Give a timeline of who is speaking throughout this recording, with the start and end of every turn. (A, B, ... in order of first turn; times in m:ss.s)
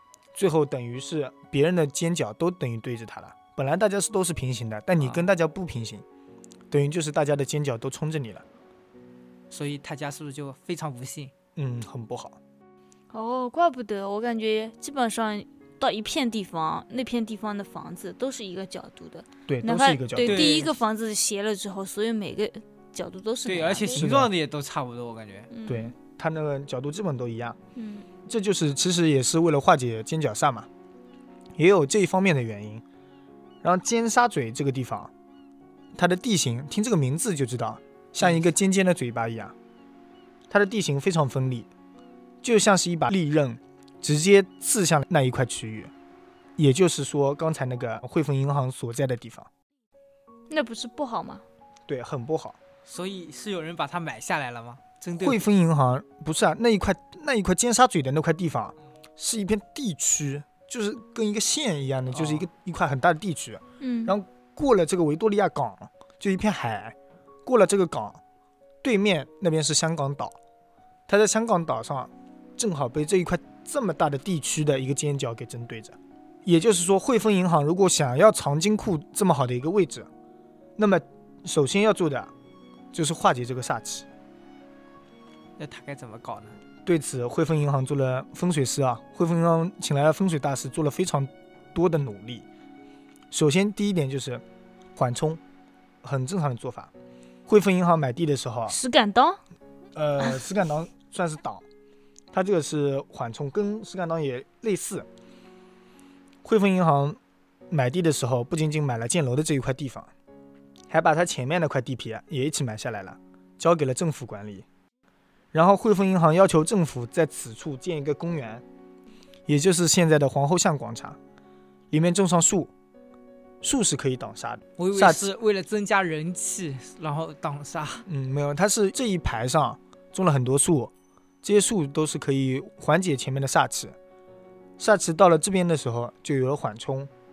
0:00.3-0:06.0 A
0:05.0-0:05.2 B
0:06.7-0:08.4 A
0:09.5-0:11.3 B
0:11.6-0:12.4 A
0:13.1-0:24.1 C
0:19.5-0:20.7 A
0:20.2-0:20.8 B
0:23.4-0:25.5 B
0:23.9-0:24.3 A
0:25.5-0:25.9 C
0:25.7-0:27.6 A
0:27.8-0:28.1 C
0:28.2-0:30.7 A
0:31.6-0:32.8 A
0:33.6-0:35.1 A
0:35.9-0:39.5 A
0:40.5-0:41.7 A
0:42.4-0:45.9 A
0:46.6-0:49.5 A
0:50.5-0:51.4 C
0:51.9-0:52.6 A
0:52.9-0:55.4 B
0:55.2-1:08.2 A
1:02.1-1:02.5 B
1:03.8-1:04.2 C
1:08.8-1:10.3 A
1:11.1-1:20.1 A
1:20.8-1:22.3 A
1:22.9-1:24.1 A
1:25.6-1:26.6 B
1:26.8-1:32.4 A
1:33.3-1:34.4 A
1:35.0-1:35.4 A
1:36.0-1:36.9 A
1:37.5-1:38.8 A
1:38.7-1:39.4 C
1:39.9-1:41.6 A
1:42.3-1:45.1 A
1:46.4-1:47.2 A
1:47.7-1:50.1 A
1:50.9-1:54.6 A
1:55.5-1:58.6 A
1:59.5-2:01.2 A
2:01.9-2:02.7 A
2:03.6-2:05.3 A
2:04.8-2:08.0 B
2:08.1-2:14.0 A
2:14.8-2:17.1 A